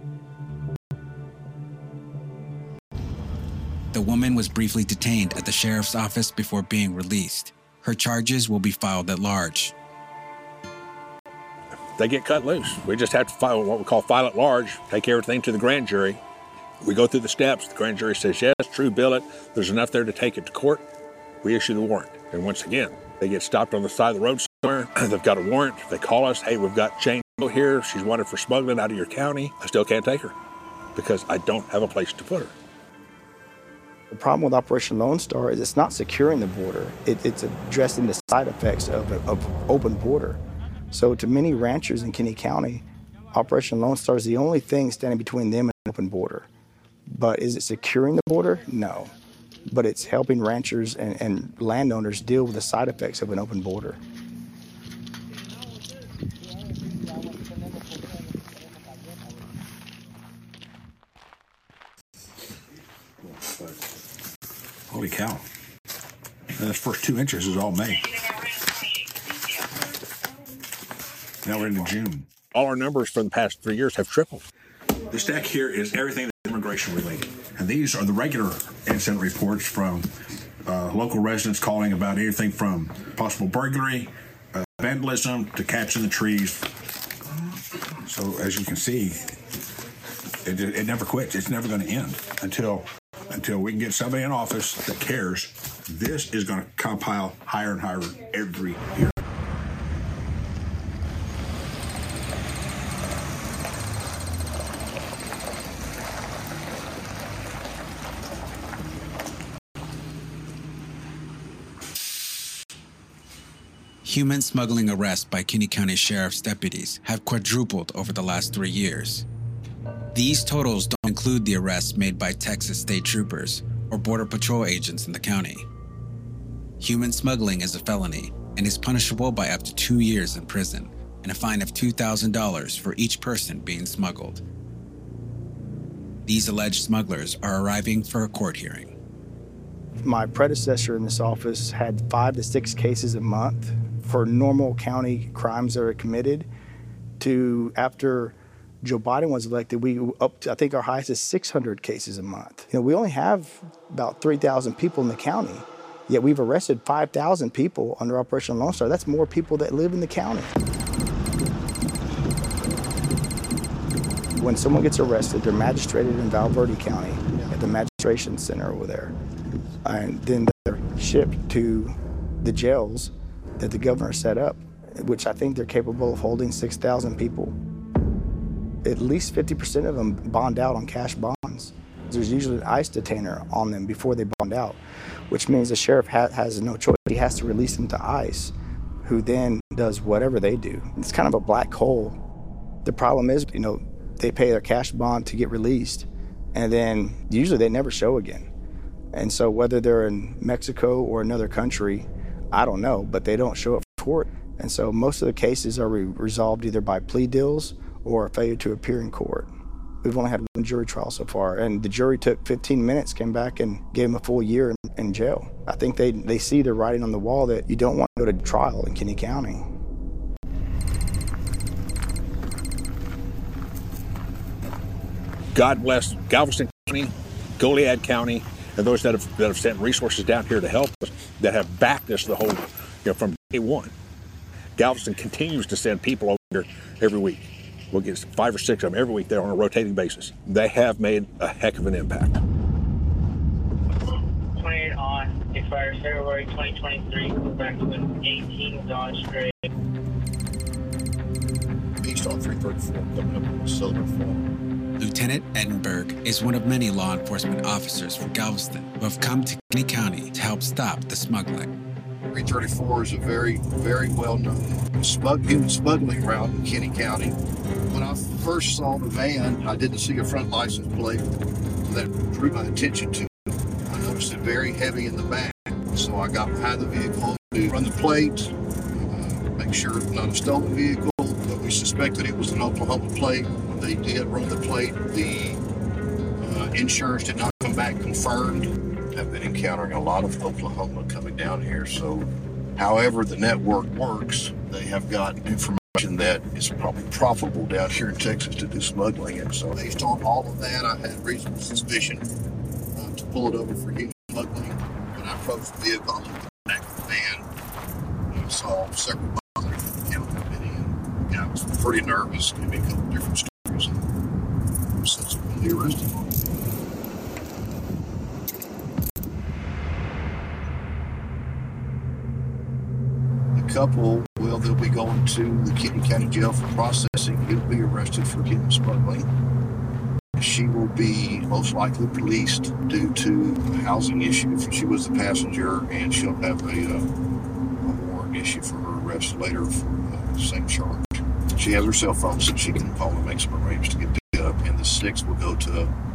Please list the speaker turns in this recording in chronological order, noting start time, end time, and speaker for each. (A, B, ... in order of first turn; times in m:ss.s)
0:03.9-0:09.7 A
0:12.0-0:16.2 B
0:16.8-0:20.8 B
0:21.4-0:30.3 B
0:30.9-0:32.5 B
0:34.1-0:40.4 C
0:40.9-0:46.5 C
0:47.1-0:49.1 C
0:49.7-0:54.0 C
1:03.2-1:03.7 D
1:04.9-1:05.4 D
1:06.6-1:08.1 D
1:11.4-1:12.3 D
1:12.5-1:14.4 B
1:15.1-1:20.1 D
1:20.6-1:26.7 D
1:27.7-1:29.3 D
1:30.4-1:39.1 D
1:54.0-1:59.2 A
2:00.1-2:05.6 A
2:06.8-2:14.4 A
2:16.2-2:18.9 A
2:20.0-2:26.5 C
2:27.2-2:40.5 C
2:44.4-2:49.1 C
2:49.8-2:57.6 C
2:58.8-3:04.8 C
3:05.3-3:08.5 C
3:09.0-3:12.2 C
3:12.8-3:18.5 C
3:19.1-3:29.5 C
3:30.0-3:39.7 C
3:45.5-3:53.9 B
3:54.8-4:02.4 B
4:04.6-4:09.6 E
4:12.0-4:14.4 F
4:15.0-4:21.7 A
4:22.3-4:27.4 F
4:27.9-4:31.2 F
4:31.8-4:38.5 F
4:39.0-4:45.6 F
4:46.4-5:02.2 F
5:02.9-5:07.4 F
5:08.3-5:14.0 F
5:15.0-5:16.4 F
5:23.5-5:29.3 F
5:30.4-5:37.1 F
5:37.8-5:45.9 F